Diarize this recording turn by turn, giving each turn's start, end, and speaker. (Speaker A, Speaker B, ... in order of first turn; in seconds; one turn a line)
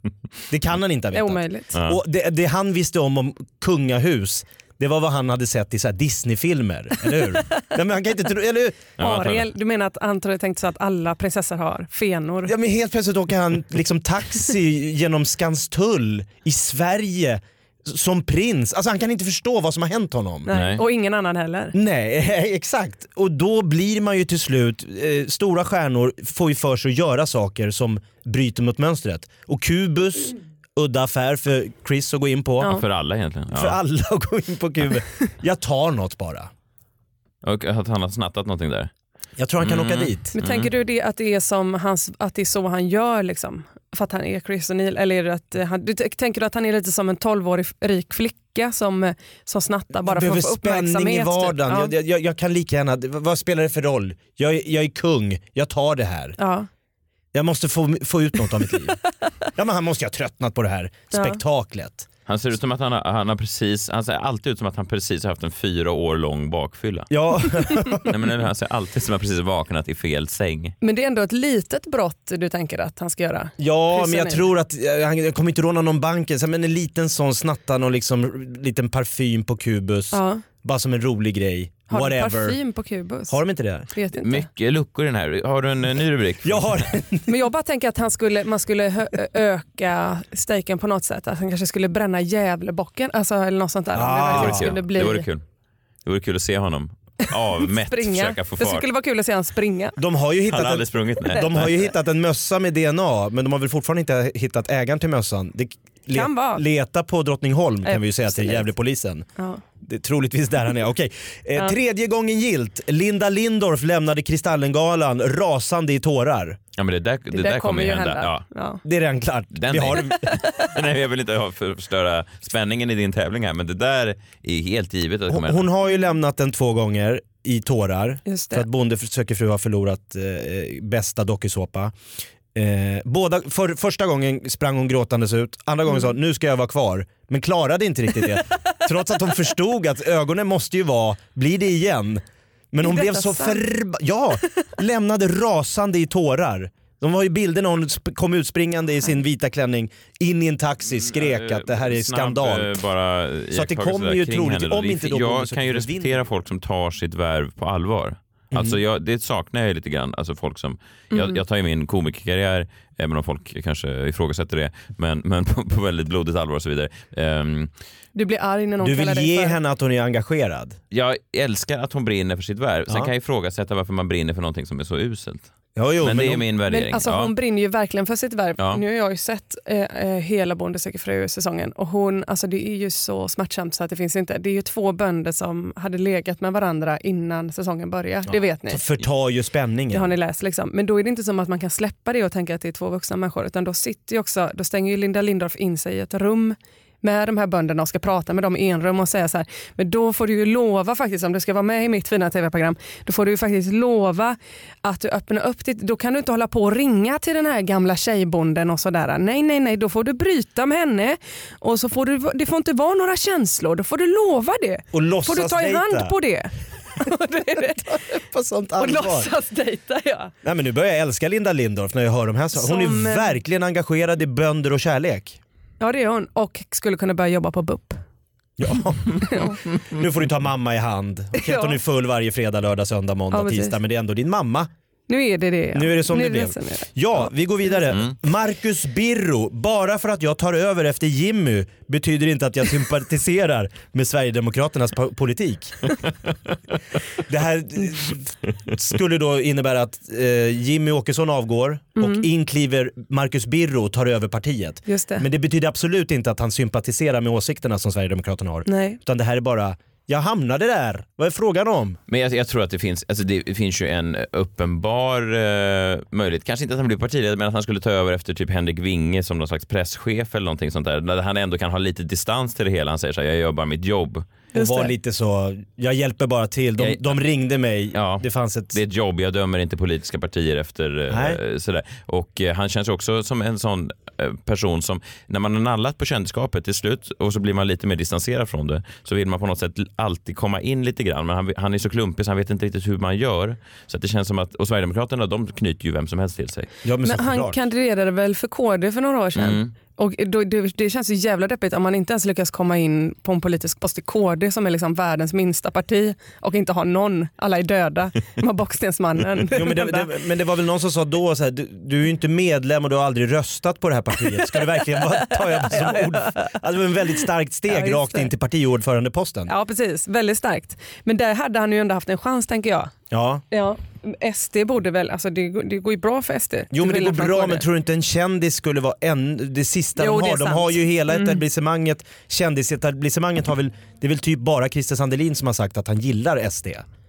Speaker A: 0.5-8.9
Speaker B: 1.1-1.7
Speaker C: 9.0-9.5
Speaker B: 9.0-12.5
Speaker A: 12.4-20.5
Speaker B: 20.4-21.7
Speaker C: 20.5-20.8
Speaker A: 21.7-32.8
Speaker C: 32.7-33.8
Speaker A: 33.5-36.5
Speaker C: 37.4-38.9
Speaker A: 39.4-40.2
Speaker C: 39.6-40.7
Speaker B: 40.3-51.9
Speaker A: 49.9-56.4
Speaker B: 56.4-56.7
Speaker A: 57.3-59.0
Speaker A: 59.5-62.1
Speaker B: 61.1-61.4
Speaker C: 62.3-67.1
Speaker A: 67.1-68.1
Speaker C: 68.1-70.7
Speaker B: 70.8-74.5
Speaker A: 73.6-82.6
Speaker B: 80.1-80.4
Speaker B: 81.9-83.4
Speaker A: 83.3-83.9
Speaker B: 83.9-84.5
Speaker C: 84.2-86.9
Speaker A: 86.4-87.3
Speaker B: 87.3-95.2
Speaker A: 93.9-94.7
Speaker C: 94.3-95.4
Speaker C: 96.0-98.8
Speaker B: 97.8-100.0
Speaker A: 100.0-109.3
Speaker C: 100.5-101.9
Speaker B: 106.1-106.6
Speaker B: 107.8-108.7
Speaker A: 109.8-116.6
Speaker C: 116.8-118.4
Speaker B: 117.3-118.8
Speaker A: 118.8-120.4
Speaker C: 119.5-125.7
Speaker A: 125.3-131.9
Speaker B: 128.2-128.7
Speaker A: 132.5-152.7
Speaker B: 142.8-143.6
Speaker C: 150.9-167.7
Speaker A: 153.5-156.2
Speaker A: 158.5-158.8
Speaker B: 161.1-161.4
Speaker B: 168.1-169.6
Speaker A: 168.8-170.8
Speaker C: 170.9-177.3
Speaker A: 175.8-176.4
Speaker B: 176.7-188.8
Speaker A: 188.3-190.1
Speaker B: 189.9-218.0
Speaker A: 214.9-216.1
Speaker A: 217.9-219.3
Speaker B: 218.8-220.3
Speaker A: 220.4-225.4
Speaker B: 222.5-223.4
Speaker B: 225.8-228.0
Speaker A: 228.6-234.7
Speaker B: 229.2-229.6
Speaker B: 231.4-231.8
Speaker B: 233.3-233.8
Speaker B: 235.1-236.9
Speaker A: 235.7-245.9
Speaker A: 247.3-262.0
Speaker B: 252.0-252.3
Speaker B: 254.8-255.2
Speaker B: 258.6-259.0
Speaker C: 262.1-274.3
Speaker B: 274.5-274.9
Speaker A: 274.5-278.8
Speaker C: 276.8-277.2
Speaker C: 277.9-296.7
Speaker A: 281.1-281.4
Speaker A: 296.8-297.6
Speaker B: 297.0-310.1
Speaker C: 299.4-299.7
Speaker A: 309.5-319.5
Speaker B: 315.0-316.6
Speaker B: 317.7-318.3
Speaker B: 319.5-322.9
Speaker A: 323.1-323.4
Speaker B: 323.5-327.6
Speaker A: 326.7-336.8
Speaker B: 330.0-331.4